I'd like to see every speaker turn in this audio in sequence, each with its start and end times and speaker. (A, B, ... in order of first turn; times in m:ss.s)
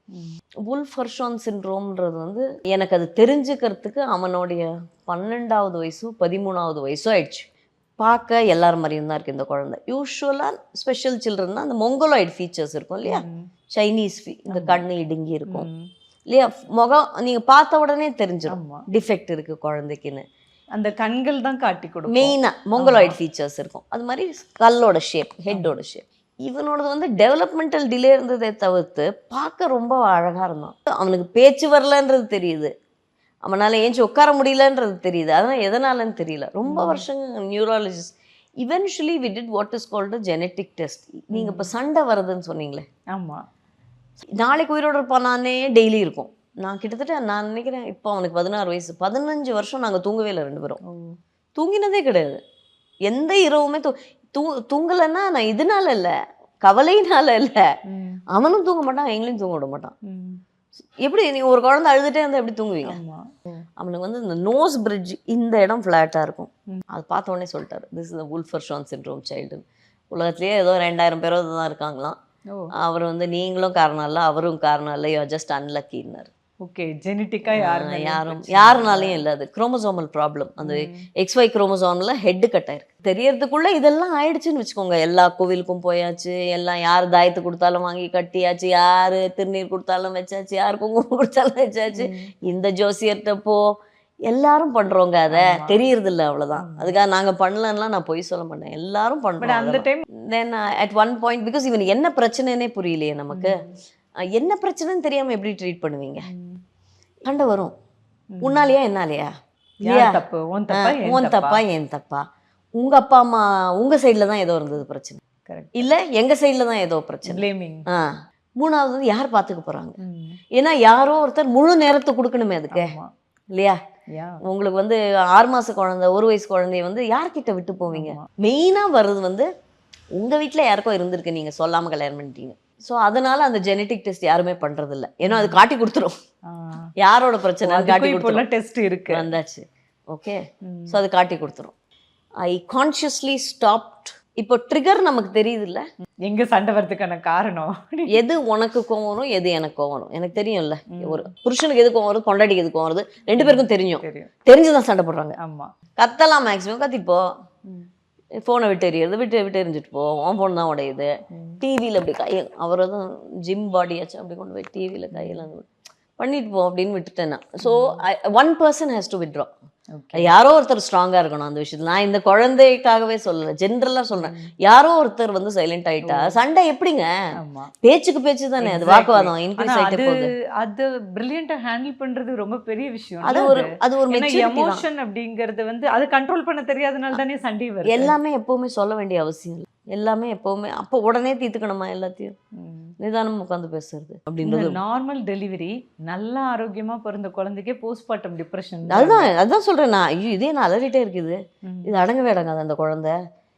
0:00.1-0:00.4 A
0:00.6-0:07.5 B
0:08.0-0:15.7 B
0:13.0-0:13.5 A
0:14.5-0:14.8 A
0:15.5-0:15.9 A
0:16.3-0:20.2 B
0:18.5-0:18.8 A
0:20.8-0:23.2 A
0:22.1-0:32.7 B
0:33.4-0:42.9 B
0:36.7-0:37.0 A
0:41.3-0:41.7 A
0:43.1-0:43.4 A
0:44.3-0:50.8 B
0:50.8-0:51.2 A
0:51.6-0:52.4 B
0:53.1-0:56.1 B
0:56.6-0:57.6 B
0:57.9-0:58.2 A
0:58.3-0:59.9 B
1:00.0-1:00.4 A
1:01.0-1:03.0 B
1:02.9-1:03.4 A
1:03.8-1:12.2 B
1:12.7-1:16.3 B
1:16.6-1:19.2 A
1:17.5-1:33.6 B
1:20.6-1:21.1 A
1:31.9-1:32.3 A
1:34.3-1:43.6 B
1:35.3-1:35.8 A
1:36.6-1:37.0 A
1:39.4-1:40.0 A
1:43.3-1:43.7 A
1:44.3-1:46.3 B
1:46.3-1:46.6 A
1:47.2-1:47.7 B
1:48.3-1:48.7 A
1:48.4-1:49.3 B
1:49.8-1:51.6 A
1:49.8-1:50.2 B
1:50.7-1:52.2 B
1:52.8-1:55.2 B
1:55.4-1:55.8 A
1:55.7-2:00.0 B
1:57.2-1:57.8 A
2:00.0-2:00.4 A
2:00.5-2:02.9 B
2:02.7-2:03.1 A
2:04.1-2:04.4 A
2:04.4-2:09.5 B
2:07.9-2:08.2 A
2:10.2-2:16.2 B
2:15.2-2:15.6 A
2:16.5-2:16.9 A
2:17.0-2:18.4 B
2:17.6-2:19.2 A
2:19.1-2:21.7 B
2:20.6-2:21.0 A
2:22.4-2:25.8 B
2:26.2-2:28.2 A
2:28.1-2:35.4 B
2:30.9-2:31.3 A
2:33.4-2:34.3 A
2:35.4-2:35.7 A
2:36.0-2:37.2 B
2:38.4-2:41.1 B
2:41.3-2:41.6 A
2:41.6-2:49.5 B
2:45.1-2:45.5 A
2:47.6-2:48.0 A
2:49.9-2:50.3 A
2:50.2-2:57.1 B
2:54.2-2:54.5 A
2:56.0-2:56.4 A
2:57.4-2:57.7 A
2:57.8-3:00.3 B
2:58.6-3:08.2 A
3:03.2-3:04.8 B
3:07.9-3:12.3 B
3:12.6-3:12.9 A
3:13.0-3:14.8 B
3:14.4-3:19.3 A
3:18.9-3:23.1 B
3:21.6-3:21.9 A